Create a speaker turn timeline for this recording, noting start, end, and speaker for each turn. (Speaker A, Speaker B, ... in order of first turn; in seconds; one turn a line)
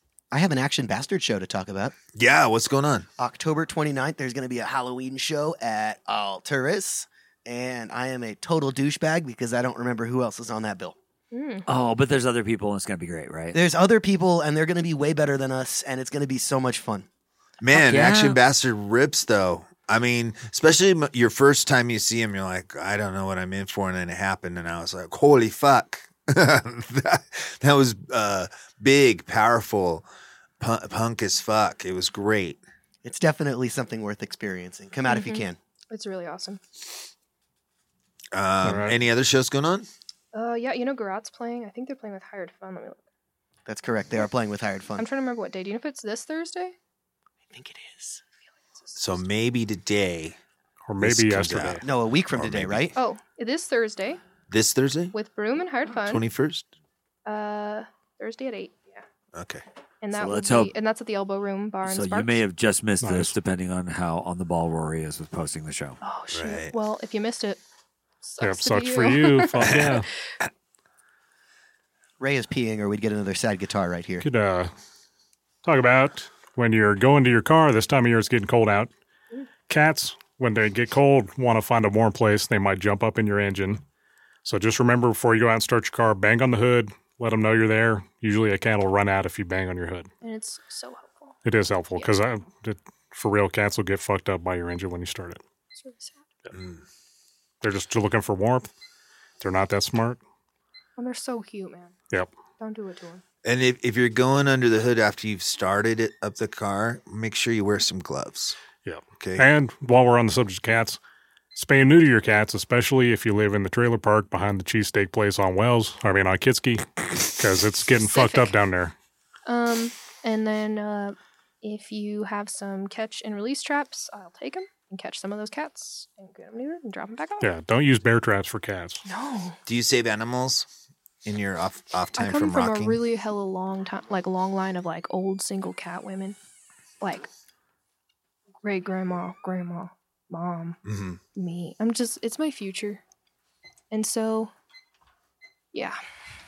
Speaker A: 0.3-1.9
Speaker B: 2.1-3.1
Speaker A: 3.2-10.9
Speaker C: 11.3-11.7
Speaker D: 11.7-13.6
Speaker A: 13.5-17.1
Speaker B: 17.6-30.1
Speaker D: 17.7-18.4
Speaker B: 30.6-32.6
Speaker A: 33.0-35.6
Speaker C: 35.1-36.6
Speaker B: 38.3-39.9
Speaker E: 38.6-38.9
Speaker C: 40.3-43.0
Speaker A: 43.6-45.0
Speaker C: 45.0-46.7
Speaker A: 47.5-48.2
Speaker C: 48.7-49.1
Speaker B: 49.0-50.4
Speaker E: 50.9-51.8
Speaker B: 51.0-52.9
Speaker A: 51.8-52.9
Speaker C: 52.9-54.2
Speaker B: 54.5-55.1
Speaker C: 55.1-56.2
Speaker B: 56.0-56.6
Speaker C: 57.2-59.0
Speaker B: 59.3-59.6
Speaker C: 60.0-62.4
Speaker D: 60.1-60.7
Speaker D: 61.9-66.0
Speaker E: 63.0-63.3
Speaker C: 66.0-67.6
Speaker B: 66.3-66.7
Speaker C: 68.2-69.9
Speaker E: 68.4-70.1
Speaker A: 72.2-74.2
Speaker E: 74.2-74.7
Speaker E: 75.6-78.9
Speaker E: 79.7-83.8
Speaker E: 84.4-90.1
Speaker C: 90.2-91.4
Speaker E: 91.4-95.4
Speaker C: 95.7-96.2
Speaker B: 96.5-96.8
Speaker E: 97.6-98.7
Speaker E: 99.4-100.2
Speaker C: 101.0-101.9
Speaker C: 102.6-103.2
Speaker B: 103.4-108.6
Speaker E: 108.8-111.0
Speaker B: 109.2-109.5
Speaker E: 111.5-118.9
Speaker C: 118.0-118.5
Speaker C: 119.5-127.5
Speaker E: 127.4-129.0
Speaker C: 129.1-129.6
Speaker B: 129.7-130.7
Speaker B: 131.2-133.0
Speaker C: 132.2-136.4
Speaker C: 137.0-137.3
Speaker C: 138.6-140.8
Speaker B: 140.8-141.2
Speaker C: 141.3-143.0
Speaker C: 143.9-144.5
Speaker C: 145.7-146.0